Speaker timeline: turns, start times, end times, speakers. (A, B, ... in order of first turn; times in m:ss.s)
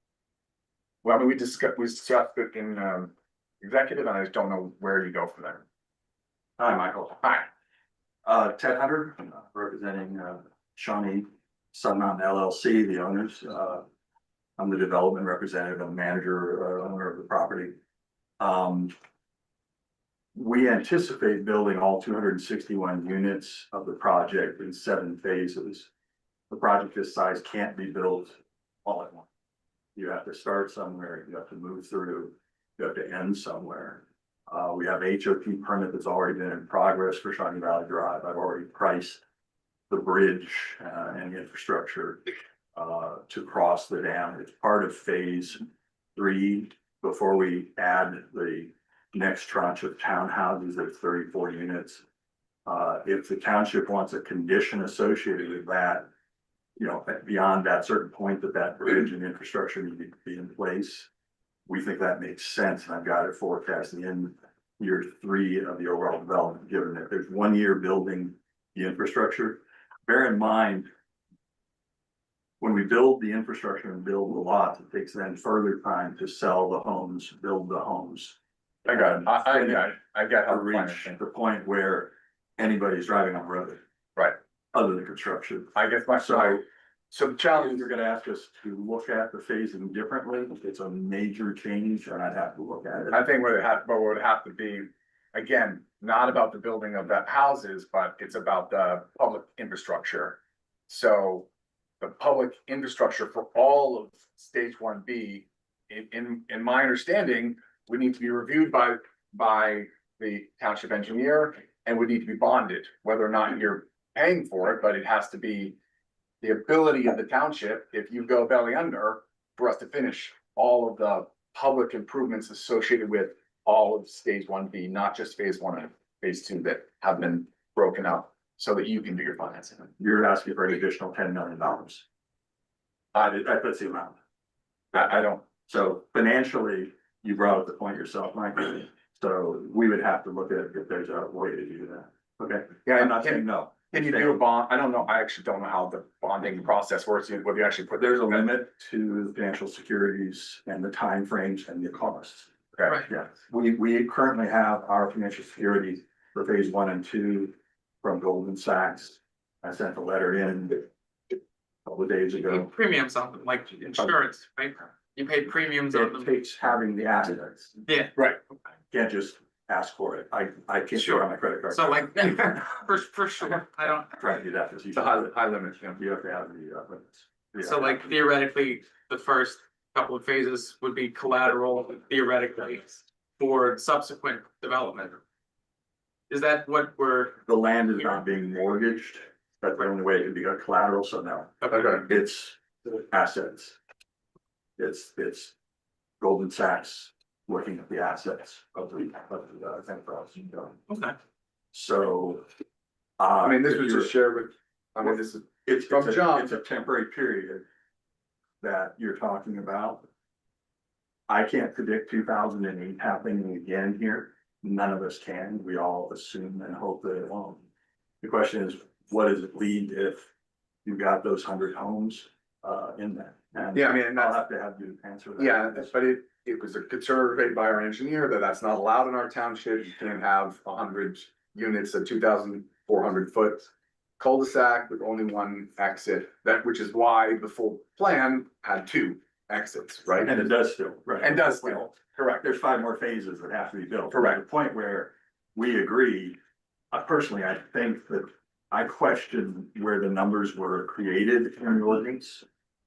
0:01.0-0:05.6 A
0:06.6-0:07.4 B
0:08.2-0:13.8 B
0:14.6-0:17.8 B
0:18.4-0:18.9 B
0:20.3-0:25.9 B
0:26.5-0:29.3 B
0:29.9-0:39.2 B
0:39.9-0:45.6 B
0:46.2-0:52.0 B
0:52.6-0:56.1 B
0:56.8-1:01.1 B
1:01.7-1:10.9 B
1:12.6-1:19.9 B
1:18.8-1:21.2 A
1:20.5-1:23.8 B
1:24.7-1:26.6 B
1:25.7-1:27.8 A
1:27.5-1:33.2 B
1:33.1-1:41.5 A
1:42.0-1:55.8 A
1:56.4-2:09.9 A
2:10.0-2:12.0 B
2:13.1-2:14.2 B
2:14.9-2:24.4 B
2:14.9-2:15.4 A
2:22.8-2:28.5 A
2:28.0-2:40.9 B
2:32.8-2:33.0 A
2:41.8-2:42.7 B
2:42.5-2:46.3 C
2:45.9-2:47.8 B
2:47.9-2:48.1 C
2:48.9-2:52.5 B
2:50.9-2:54.2 C
2:54.2-2:55.4 B
2:54.9-2:56.0 A
2:56.0-2:58.0 B
2:57.6-3:05.2 C
3:06.3-3:07.4 C
3:07.4-3:13.8 B
3:11.6-3:11.9 C
3:11.7-3:12.0 A
3:14.8-3:15.5 B
3:16.2-3:20.8 B
3:20.9-3:21.2 C
3:21.7-3:22.4 B
3:23.2-3:24.1 B
3:23.4-3:26.6 A
3:25.6-3:27.6 B
3:28.6-3:30.0 B
3:31.3-3:37.6 B
3:38.2-3:40.3 B
3:40.8-3:45.9 B
3:43.7-3:44.4 A
3:45.4-4:00.5 A
4:00.2-4:06.4 B
4:01.2-4:02.5 A
4:04.1-4:04.4 A
4:06.9-4:12.4 B